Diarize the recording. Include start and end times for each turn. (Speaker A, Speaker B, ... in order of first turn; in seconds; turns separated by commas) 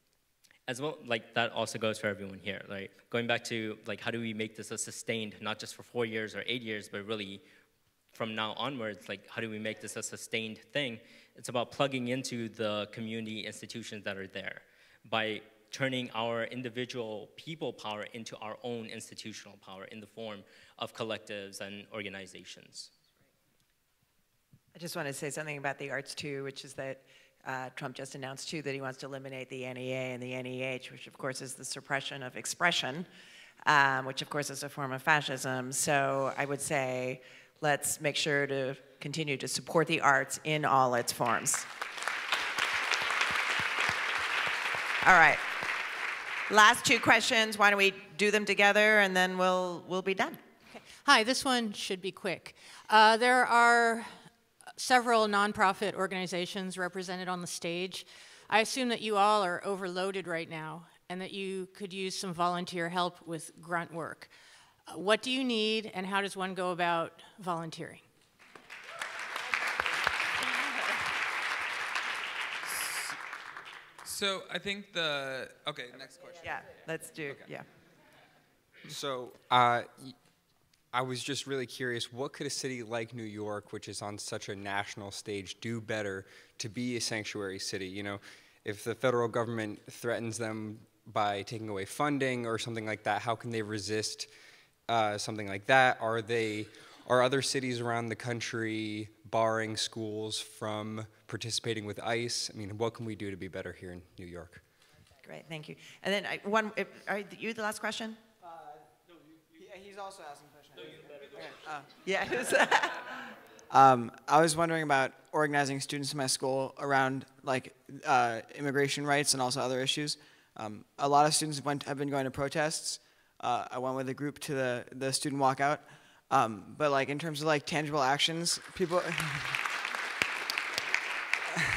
Speaker A: 0.7-7.4, Speaker A: 8.1-22.9, Speaker B: 24.7-33.1, Speaker B: 33.6-41.7, Speaker B: 45.0-45.5, Speaker B: 46.5-50.4, Speaker C: 50.7-64.3, Speaker C: 64.9-68.1, Speaker D: 72.7-73.2, Speaker D: 74.0-76.6, Speaker B: 76.4-77.7, Speaker E: 78.9-80.2, Speaker E: 80.9-94.3, Speaker E: 94.9-104.6, Speaker B: 105.2-108.2, Speaker F: 109.6-111.9, Speaker B: 112.0-113.2, Speaker F: 113.7-129.6